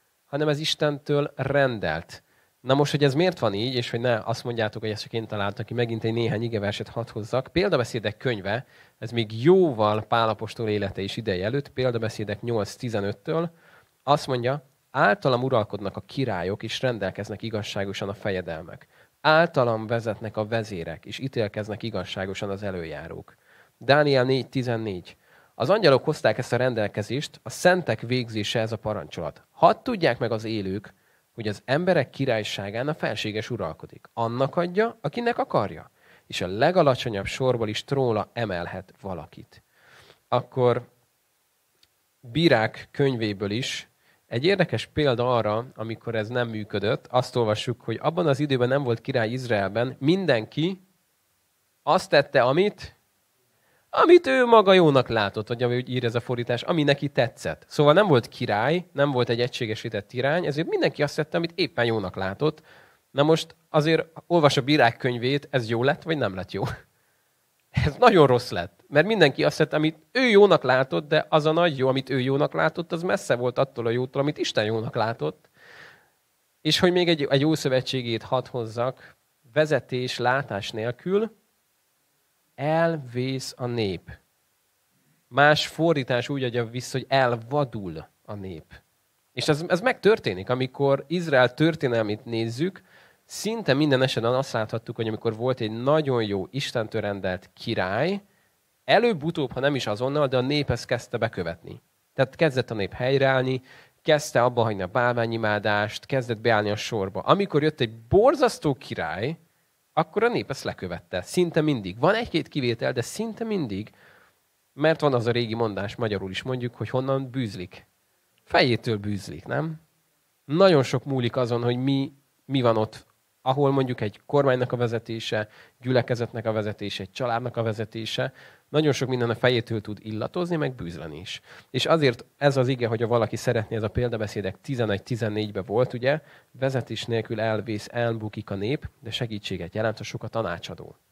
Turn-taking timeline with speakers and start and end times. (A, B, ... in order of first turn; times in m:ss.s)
0:00.3-0:13.5 A
0:14.0-0:39.6 A
0:40.3-0:40.9 A
0:42.2-0:50.8 A
0:51.8-0:52.9 A
0:53.9-1:06.7 A
1:07.7-1:15.5 A
1:16.6-1:21.3 A
1:22.6-1:24.2 A
1:25.3-1:28.8 A
1:29.3-1:38.2 A
1:38.9-1:49.4 A
1:50.0-1:53.9 A
1:54.8-1:57.8 A
1:58.5-1:59.8 A
2:00.5-2:21.0 A